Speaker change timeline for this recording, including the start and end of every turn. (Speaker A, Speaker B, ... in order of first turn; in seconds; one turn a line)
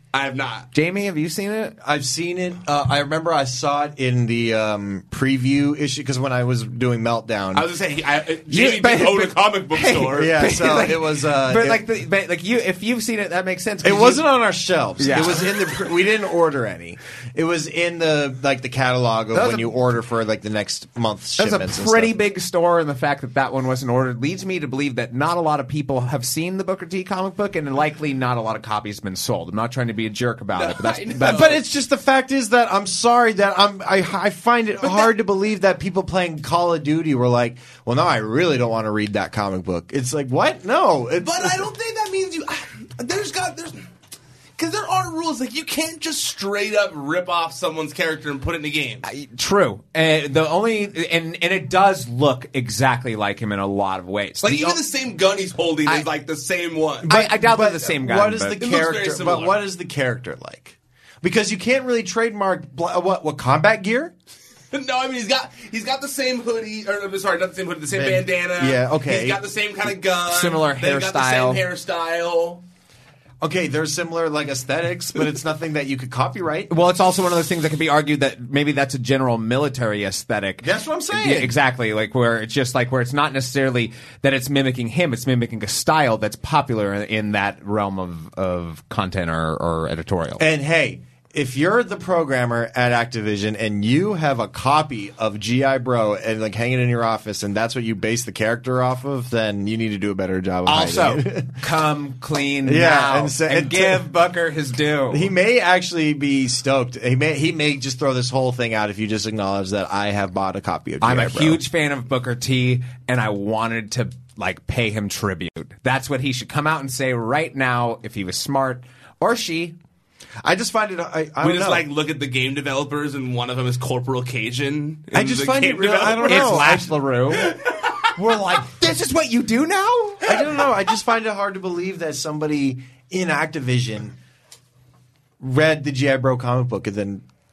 Speaker A: 0.1-0.7
Speaker B: 0.7-1.8
Speaker C: 1.8-7.7
Speaker A: 7.5-10.4
Speaker B: 8.5-14.3
Speaker C: 10.1-11.8
Speaker C: 13.8-22.1
Speaker B: 15.0-15.6
Speaker B: 19.3-19.7
Speaker B: 21.4-31.6
Speaker A: 30.6-31.6
Speaker C: 31.2-41.7
Speaker A: 34.8-35.1
Speaker A: 41.2-43.9
Speaker A: 44.6-49.0
Speaker B: 49.0-54.8
Speaker A: 54.4-57.1
Speaker B: 57.1-58.6
Speaker C: 57.1-64.1
Speaker A: 58.6-59.6
Speaker A: 64.7-72.6
Speaker C: 67.9-69.4
Speaker B: 70.3-71.6
Speaker C: 73.4-76.7
Speaker B: 76.7-90.4
Speaker C: 80.6-81.5
Speaker C: 90.4-101.6
Speaker B: 100.7-105.3
Speaker C: 102.6-104.1
Speaker C: 105.1-111.6
Speaker B: 111.0-119.8
Speaker C: 120.4-121.9
Speaker A: 121.4-126.8
Speaker C: 125.1-127.5
Speaker B: 126.3-130.3
Speaker A: 127.4-128.0
Speaker C: 130.2-134.2
Speaker C: 135.4-137.2